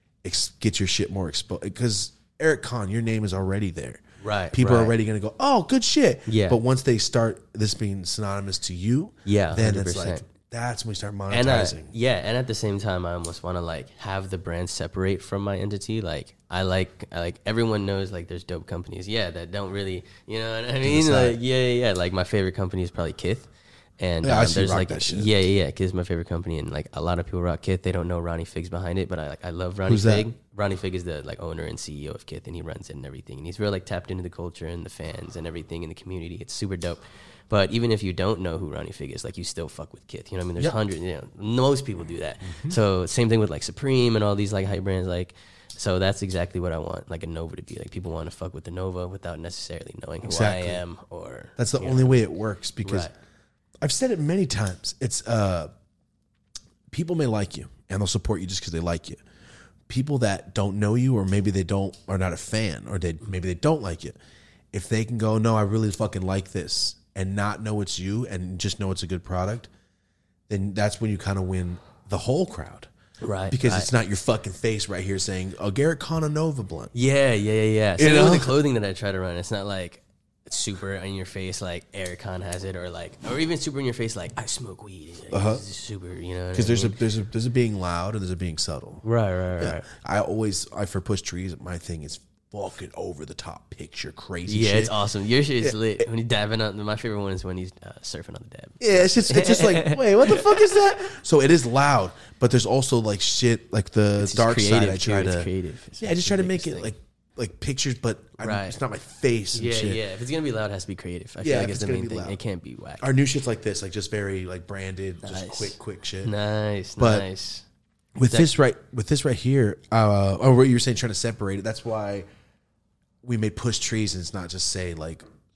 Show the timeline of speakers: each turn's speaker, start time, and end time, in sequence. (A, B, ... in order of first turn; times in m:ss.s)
0:00.2-0:11.9 A
0:04.2-0:05.0 B
0:06.3-0:06.6 B
0:09.2-0:10.3 B
0:11.3-0:52.2 B
0:20.8-0:21.4 A
0:24.2-0:25.3 A
0:29.9-0:30.3 A
0:42.4-0:42.8 A
0:50.2-0:50.8 A
0:51.6-0:53.1 A
0:52.8-0:53.1 B
0:53.8-0:55.7 A
0:56.9-0:59.2 A
0:59.9-1:04.2 A
1:04.7-1:09.7 A
1:10.5-1:12.9 A
1:13.2-1:13.9 B
1:13.5-1:16.9 A
1:16.9-1:27.0 B
1:18.0-1:18.6 A
1:25.3-1:25.6 A
1:26.5-1:29.0 A
1:29.0-1:29.9 B
1:29.6-1:34.9 A
1:34.5-1:40.8 B
1:35.6-1:36.0 A
1:38.8-1:45.5 A
1:44.2-1:46.9 B
1:46.0-1:50.0 A
1:48.4-1:48.8 B
1:49.5-1:53.1 B
1:51.4-1:52.4 A
1:53.0-1:56.3 A
1:55.2-1:57.6 B
1:57.0-1:57.3 A
1:58.2-2:02.3 A
2:03.2-2:05.2 A